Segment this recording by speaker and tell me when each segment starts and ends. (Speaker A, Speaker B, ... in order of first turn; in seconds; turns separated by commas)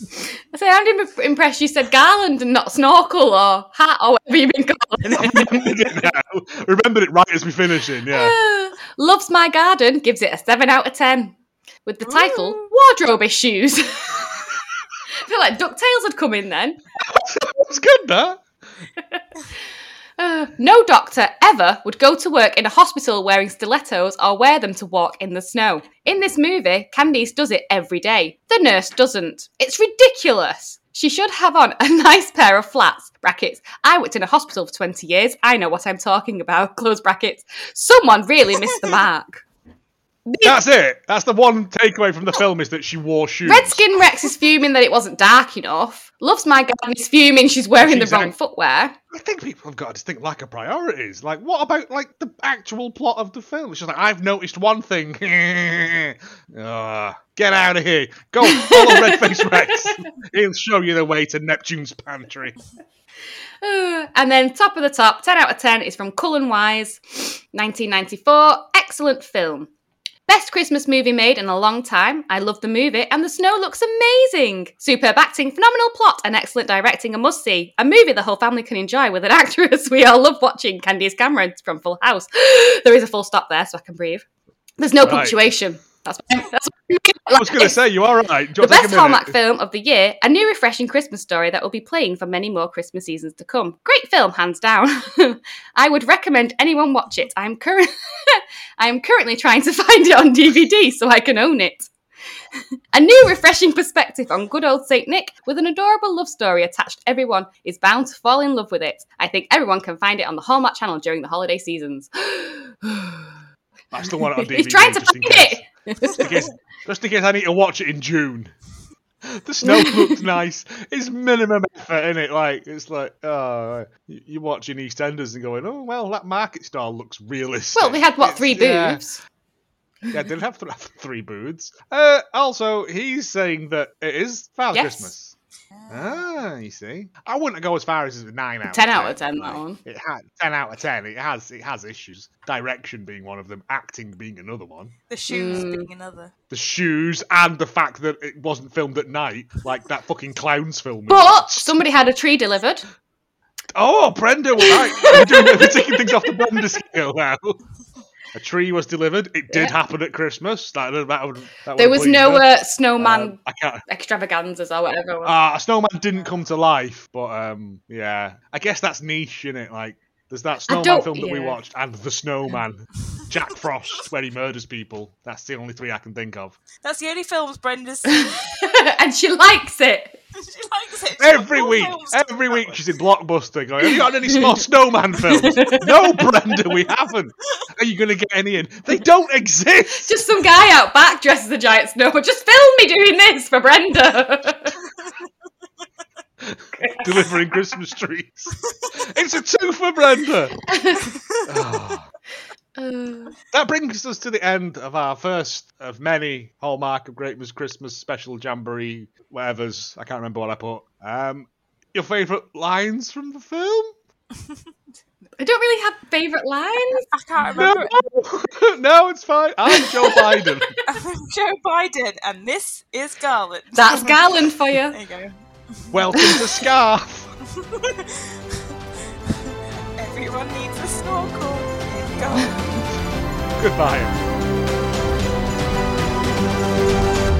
Speaker A: 0.5-5.7, Speaker B: 5.2-8.4, Speaker A: 8.1-14.4, Speaker C: 12.1-12.6, Speaker A: 15.2-16.8, Speaker B: 17.0-18.4, Speaker A: 19.0-19.2, Speaker A: 20.2-39.4, Speaker C: 38.7-39.0, Speaker A: 40.3-40.6, Speaker B: 40.4-43.8, Speaker A: 43.5-49.0, Speaker B: 47.8-48.3, Speaker B: 49.1-62.6, Speaker A: 58.4-60.0, Speaker A: 63.6-69.7, Speaker A: 70.3-84.2, Speaker A: 84.8-87.8, Speaker B: 85.0-85.4, Speaker B: 87.3-89.4, Speaker A: 88.6-101.9, Speaker A: 102.9-113.3, Speaker B: 113.9-118.5, Speaker A: 114.1-116.5, Speaker B: 119.2-129.0, Speaker A: 119.6-120.3, Speaker A: 127.8-129.2, Speaker B: 130.1-135.3, Speaker A: 134.7-135.1, Speaker C: 135.7-136.4, Speaker B: 135.9-144.9, Speaker A: 138.7-139.8, Speaker C: 145.1-146.3, Speaker A: 145.3-145.9, Speaker B: 146.5-151.8, Speaker A: 151.1-152.9, Speaker B: 153.8-157.6, Speaker A: 154.6-156.4, Speaker B: 158.3-163.8, Speaker A: 161.8-165.3, Speaker B: 165.2-176.6, Speaker A: 170.7-171.6, Speaker C: 176.8-178.7, Speaker A: 178.1-180.2, Speaker C: 180.4-182.8, Speaker B: 181.2-190.1, Speaker A: 183.8-184.6, Speaker A: 185.2-186.3, Speaker A: 189.9-194.8, Speaker B: 196.4-200.6, Speaker A: 196.8-197.1, Speaker A: 200.7-201.1, Speaker B: 201.4-202.1, Speaker A: 202.8-203.4, Speaker B: 203.5-213.9, Speaker A: 215.4-217.7, Speaker C: 217.1-217.9, Speaker B: 217.5-220.8, Speaker A: 219.7-220.8, Speaker C: 220.9-226.3, Speaker A: 223.8-225.0, Speaker B: 225.9-227.3, Speaker C: 227.5-228.7, Speaker C: 229.3-232.9, Speaker B: 233.6-234.2